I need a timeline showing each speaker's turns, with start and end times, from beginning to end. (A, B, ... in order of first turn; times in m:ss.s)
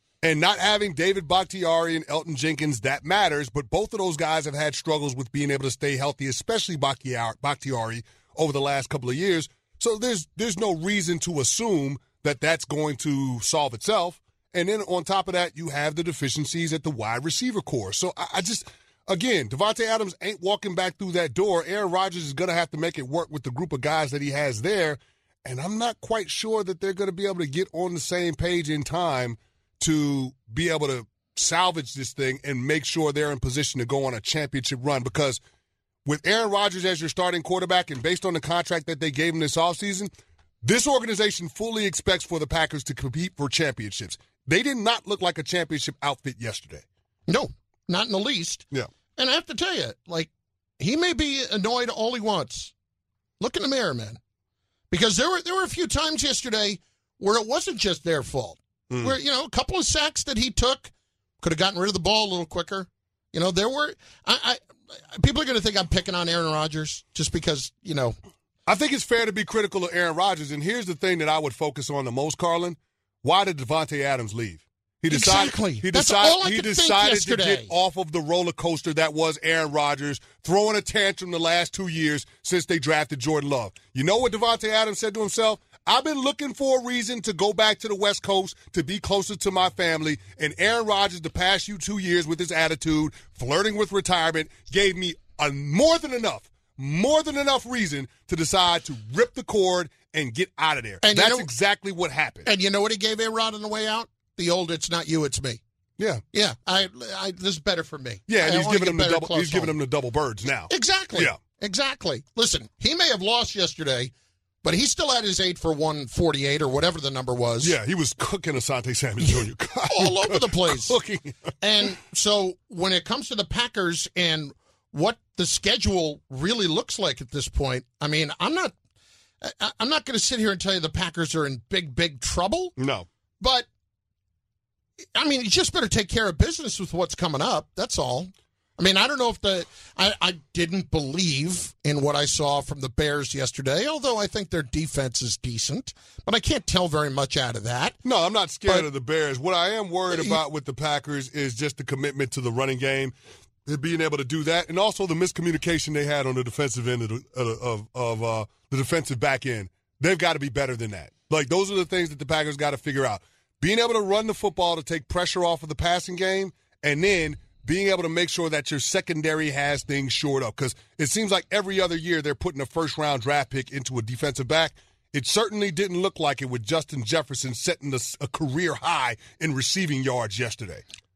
0:00.2-0:35.4 A
0:36.0-0:40.1 A
0:40.6-0:46.8 A
0:47.3-0:48.6 B
0:49.2-0:52.7 B
0:53.4-0:54.2 B
0:54.9-1:08.2 B
0:58.9-0:59.1 A
1:08.7-1:42.5 A
1:15.1-1:17.7 B
1:41.0-1:41.5 B
1:42.4-1:45.6 B
1:46.0-1:46.2 A
1:46.3-1:49.7 B
1:48.3-1:51.4 A
1:50.7-1:54.1 B
1:54.6-1:57.7 B
1:57.6-2:01.5 A
1:59.9-2:01.0 B
2:01.6-2:08.8 B
2:09.4-2:12.7 B
2:12.8-2:13.0 A
2:13.4-2:13.7 B
2:15.1-2:28.0 B
2:28.0-2:33.1 A
2:33.6-3:00.8 A